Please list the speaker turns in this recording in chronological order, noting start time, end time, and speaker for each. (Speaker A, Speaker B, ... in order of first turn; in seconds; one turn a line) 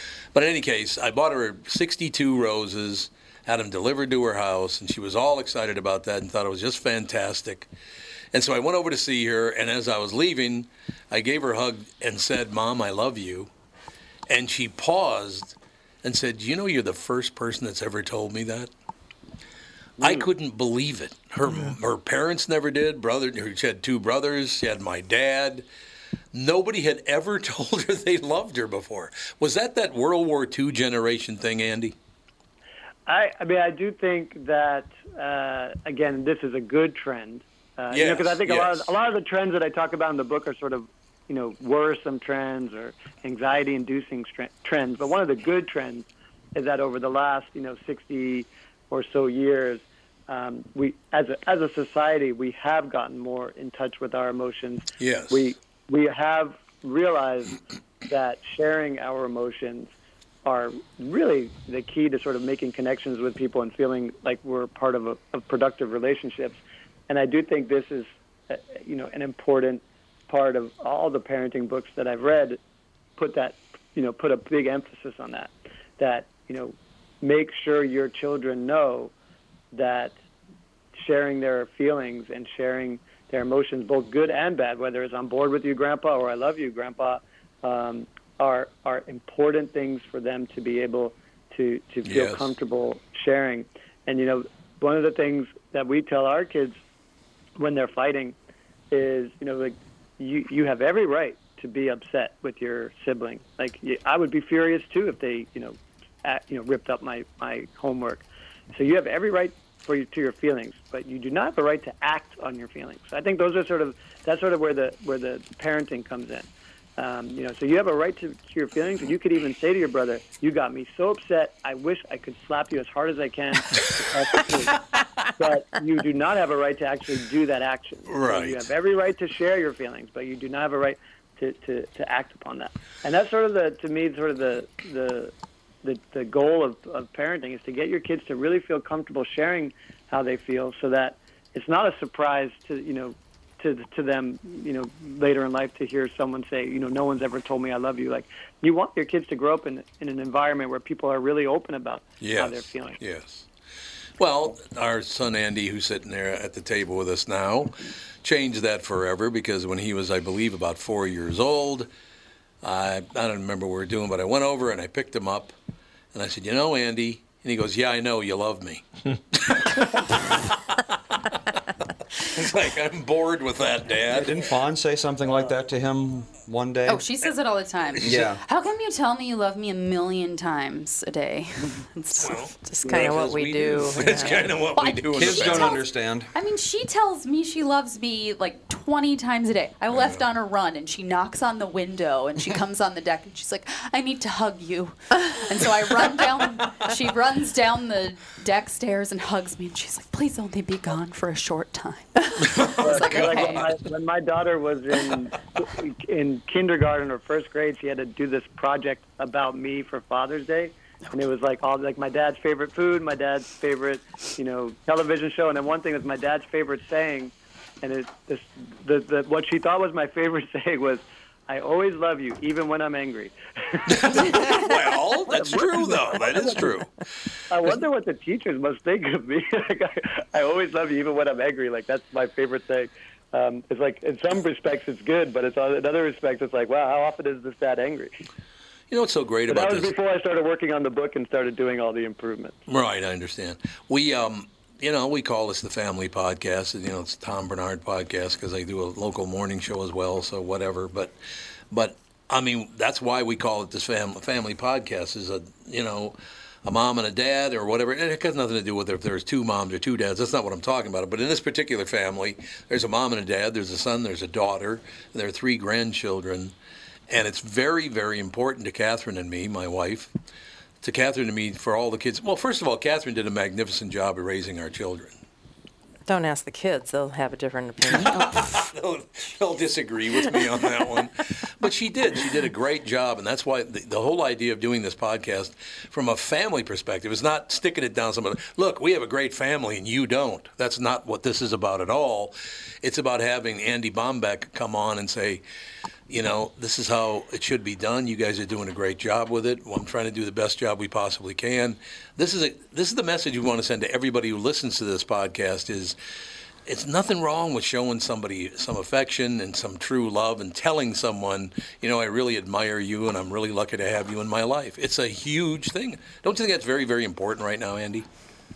Speaker A: 0.3-7.7
Speaker A: 8.3-13.5
Speaker A: 14.3-18.7
Speaker A: 20.0-25.6
Speaker A: 26.3-31.9
Speaker B: 33.0-59.9
Speaker A: 37.9-38.9
Speaker A: 55.0-55.5
Speaker B: 60.4-72.6
Speaker B: 73.2-79.1
Speaker B: 79.7-80.2
Speaker B: 81.0-96.8
Speaker A: 92.0-92.5
Speaker B: 97.6-98.3
Speaker B: 98.9-153.0
Speaker A: 128.1-128.6
Speaker A: 152.2-153.4
Speaker A: 154.2-161.9
Speaker A: 162.6-165.5
Speaker A: 166.1-170.8
Speaker A: 172.2-174.4
Speaker C: 174.1-177.0
Speaker D: 176.9-182.5
Speaker A: 177.9-178.2
Speaker C: 178.0-178.4
Speaker A: 182.2-185.8
Speaker E: 182.6-184.5
Speaker D: 184.2-203.7
Speaker C: 185.1-186.3
Speaker A: 189.9-190.2
Speaker A: 202.4-203.7
Speaker B: 202.8-224.7
Speaker A: 223.9-226.9
Speaker B: 225.3-226.7
Speaker B: 227.5-238.1
Speaker A: 238.9-239.9
Speaker B: 239.5-242.6
Speaker A: 242.7-251.1
Speaker A: 251.7-266.5
Speaker A: 267.1-270.1
Speaker A: 270.8-275.1
Speaker E: 276.1-278.4
Speaker A: 277.9-295.4
Speaker A: 296.1-306.0
Speaker A: 306.6-318.1